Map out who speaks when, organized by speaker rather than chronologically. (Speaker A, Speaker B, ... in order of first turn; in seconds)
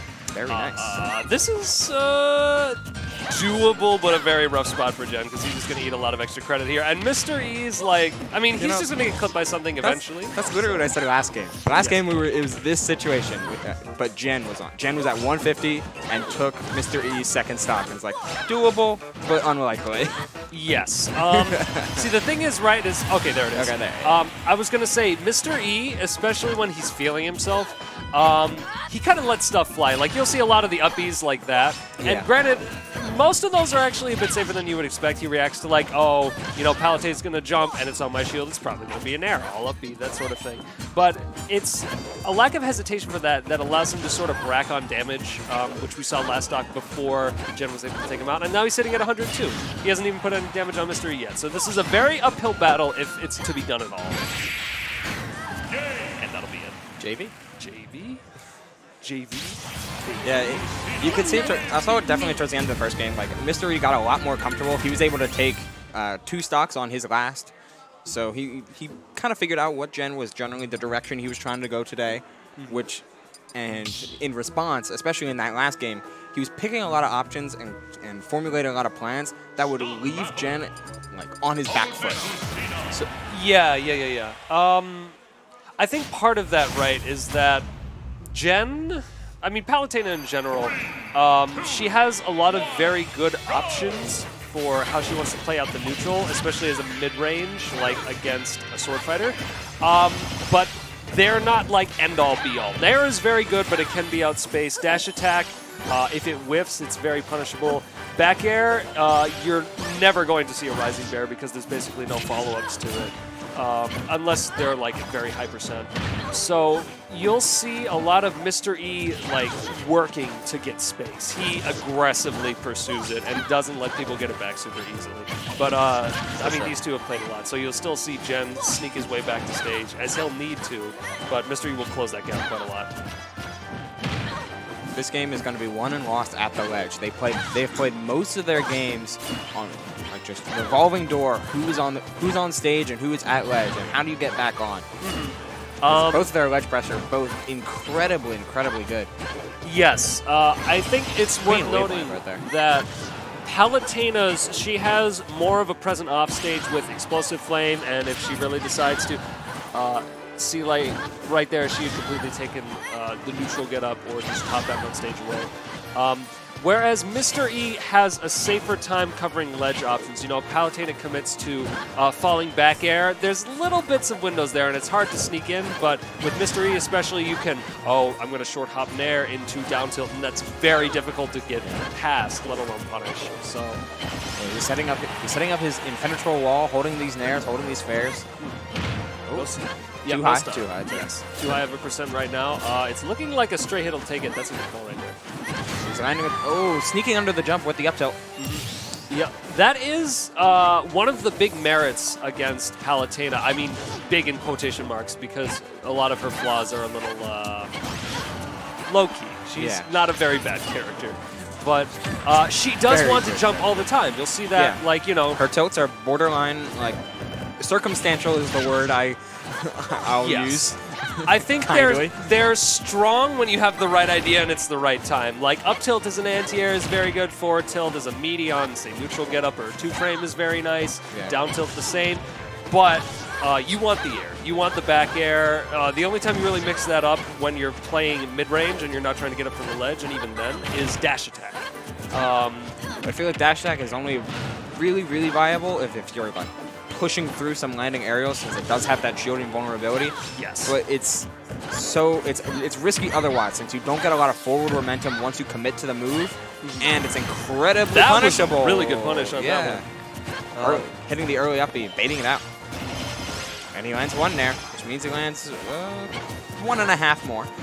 Speaker A: 0.3-1.0, 8.6-8.9, 9.8-20.3, 21.2-22.1, 23.5-24.2, 32.0-32.3, 57.0-57.3, 60.2-67.5, 68.0-83.1, 126.4-126.7, 134.9-144.9, 145.9-149.1, 151.5-152.4, 184.4-188.3, 189.3-189.5, 190.1-191.2, 195.8-198.2, 209.6-209.9, 212.8-213.8, 214.5-214.8, 215.3-217.0, 217.6-222.2, 243.0-250.2, 250.7-259.9, 260.6-262.4, 263.7-267.5
Speaker B: 0.5-10.8, 11.7-12.0, 20.5-54.3, 56.2-56.8, 57.6-58.2, 59.0-60.6, 72.6-72.8, 83.3-85.2, 85.8-87.7, 88.3-132.9, 145.0-146.3, 149.6-152.9, 153.4-159.2, 159.7-183.8, 188.4-188.6, 189.3-195.2, 198.4-207.7, 208.9-215.4, 220.2-220.7, 221.2-242.8, 250.3-250.8, 256.6-256.9, 257.9-259.9, 260.6-260.9